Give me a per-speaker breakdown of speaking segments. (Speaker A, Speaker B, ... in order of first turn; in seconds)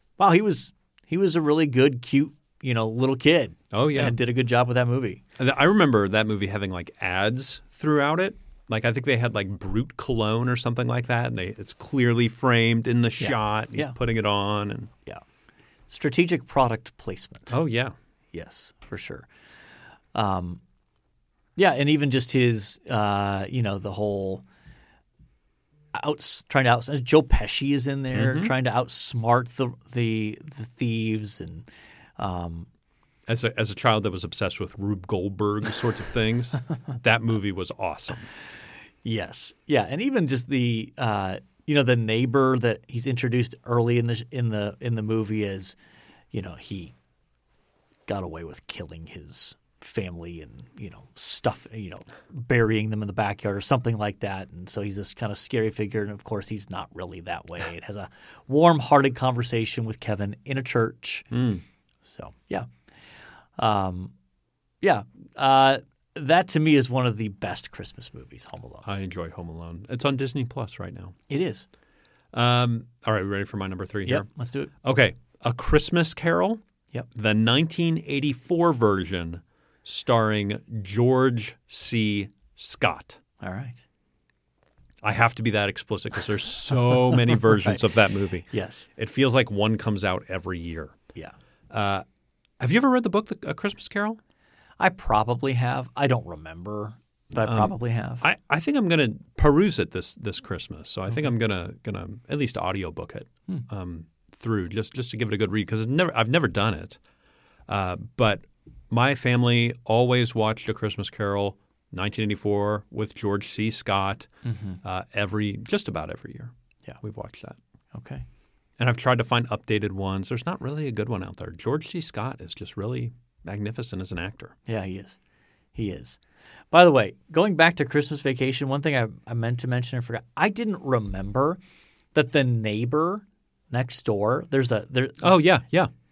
Speaker A: 0.2-5.2, 13.2-13.9, 15.9-17.6, 18.3-19.3, 20.1-20.6, 21.6-24.4, 25.9-31.7, 32.2-32.7, 39.0-45.8, 46.3-46.9, 48.1-61.3, 62.0-62.7, 63.6-64.1, 64.8-68.8, 71.3-71.7, 74.0-74.7, 83.4-83.8, 87.4-87.8, 88.5-88.9, 94.8-98.2, 114.4-114.8, 117.9-118.2, 124.7-125.2, 125.7-126.2, 126.7-131.6, 132.1-135.4
Speaker B: 3.7-4.1, 5.4-14.9, 17.5-17.9, 28.1-28.5, 33.3-38.3, 61.3-61.6, 68.8-71.2, 72.3-74.3, 74.8-76.6, 77.1-83.2, 85.0-91.0, 91.7-92.0, 92.6-94.2, 97.4-107.0, 107.7-114.3, 114.8-117.6, 118.8-124.5, 135.2-135.9